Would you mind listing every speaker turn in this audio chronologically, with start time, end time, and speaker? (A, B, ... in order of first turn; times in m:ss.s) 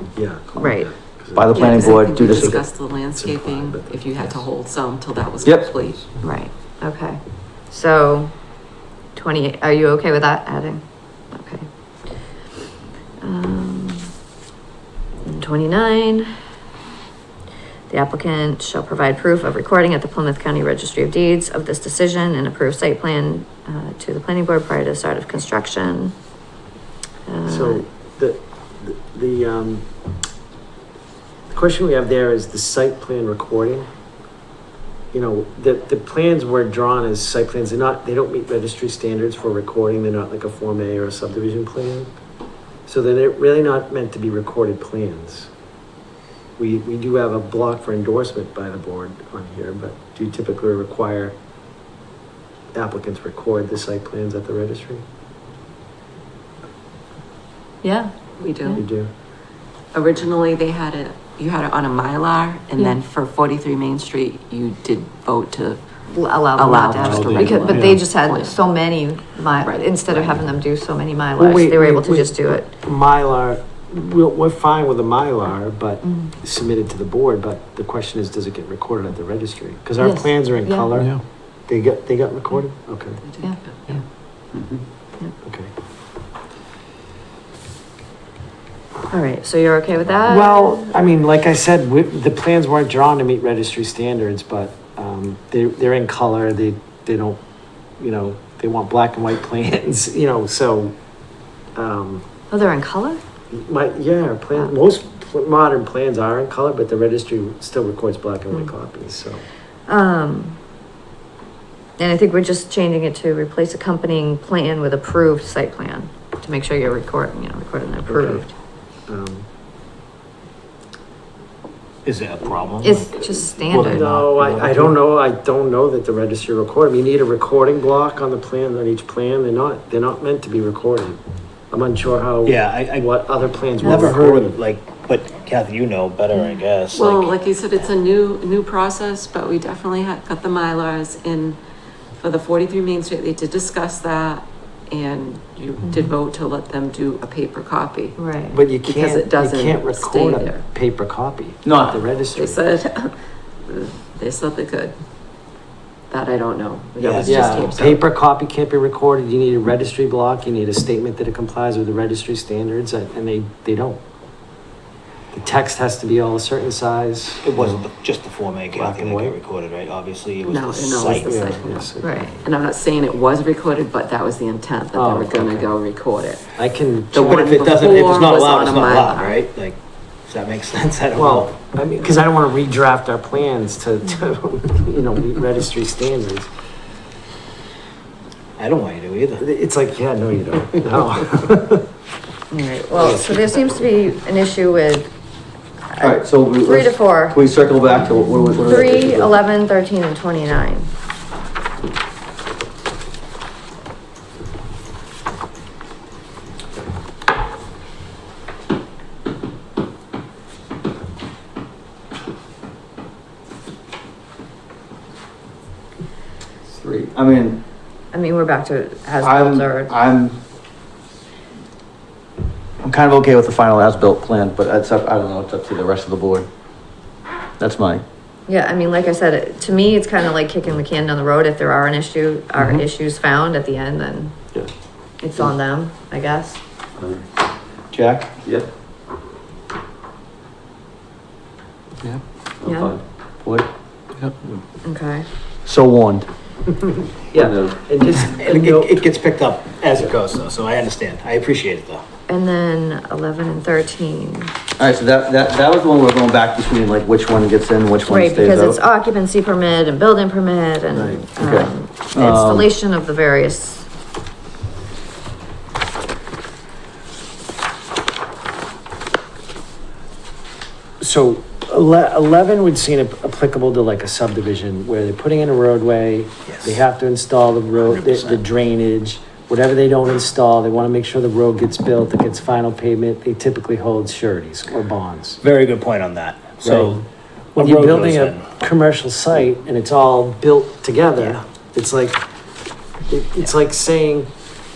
0:00.1-0:04.4 A
0:00.6-0:00.9 B
0:01.3-0:02.6 C
0:01.5-0:06.0 D
0:05.4-0:05.7 C
0:06.2-0:08.3 B
0:09.1-0:11.6 B
0:13.2-0:14.1 B
0:15.2-0:16.3 B
0:17.9-0:26.1 B
0:27.3-0:27.8 B
0:27.4-0:29.8 A
0:31.5-0:33.9 A
0:35.1-0:42.1 A
0:42.8-0:45.5 A
0:46.6-0:51.3 A
0:52.7-0:55.0 A
0:57.8-0:58.8 B
0:58.4-0:58.8 D
0:58.7-0:59.1 A
0:59.9-1:05.8 D
1:06.1-1:12.7 B
1:06.5-1:08.5 D
1:09.6-1:10.4 D
1:11.4-1:23.2 A
1:16.0-1:16.3 B
1:20.0-1:20.9 B
1:23.2-1:24.0 D
1:25.4-1:25.7 A
1:29.1-1:30.9 B
1:30.2-1:37.4 A
1:38.0-1:40.9 A
1:41.7-1:42.2 A
1:42.5-1:43.2 B
1:43.5-1:49.4 A
1:49.9-1:50.6 B
1:52.0-1:58.5 B
1:58.1-1:58.4 A
1:59.1-1:59.4 A
2:02.0-2:05.0 E
2:02.8-2:04.0 B
2:03.7-2:11.2 A
2:11.7-2:14.6 A
2:12.4-2:13.2 E
2:13.7-2:17.3 E
2:13.8-2:14.1 B
2:16.9-2:21.6 D
2:22.2-2:28.2 D
2:28.2-2:28.6 B
2:28.5-2:32.6 A
2:28.8-2:30.6 D
2:31.6-2:32.0 C
2:32.3-2:33.1 D
2:33.6-2:34.9 D
2:36.1-2:38.0 D
2:37.0-2:37.5 C
2:37.0-2:37.7 E
2:37.2-2:44.0 A
2:45.3-2:47.8 A
2:47.4-2:51.5 E
2:48.7-2:49.4 A
2:50.5-2:51.9 D
2:51.1-2:52.5 A
2:52.0-2:52.4 B
2:52.4-2:56.6 D
2:54.9-2:55.7 A
2:56.6-2:57.6 A
2:57.1-2:59.4 D
2:57.2-3:01.6 E
3:01.1-3:06.5 A
3:08.6-3:09.4 E
3:09.4-3:11.8 A
3:12.5-3:15.1 B
3:13.0-3:13.3 A
3:15.9-3:17.4 B
3:16.0-3:19.4 C
3:18.6-3:20.9 B
3:36.6-3:37.6 C
3:38.1-3:39.9 B
3:39.2-3:40.4 C
3:42.8-3:46.5 C
3:47.6-3:48.0 C
3:48.5-3:54.4 B
3:55.2-3:56.6 B
3:57.9-3:58.6 C
4:02.6-4:03.0 B
4:03.4-4:03.7 C
4:04.8-4:05.2 B
4:05.6-4:06.3 C
4:07.3-4:09.0 A
4:08.3-4:12.0 E
4:12.3-4:14.5 B
4:14.8-4:18.8 C
4:18.0-4:23.9 B
4:20.9-4:21.2 A
4:21.4-4:22.7 C
4:31.0-4:45.4 A
4:36.5-4:36.8 E
4:37.7-4:38.4 E
4:45.4-4:47.0 E
4:46.6-4:47.0 A
4:47.6-4:48.6 E
4:47.6-4:52.2 A
4:53.1-4:54.3 A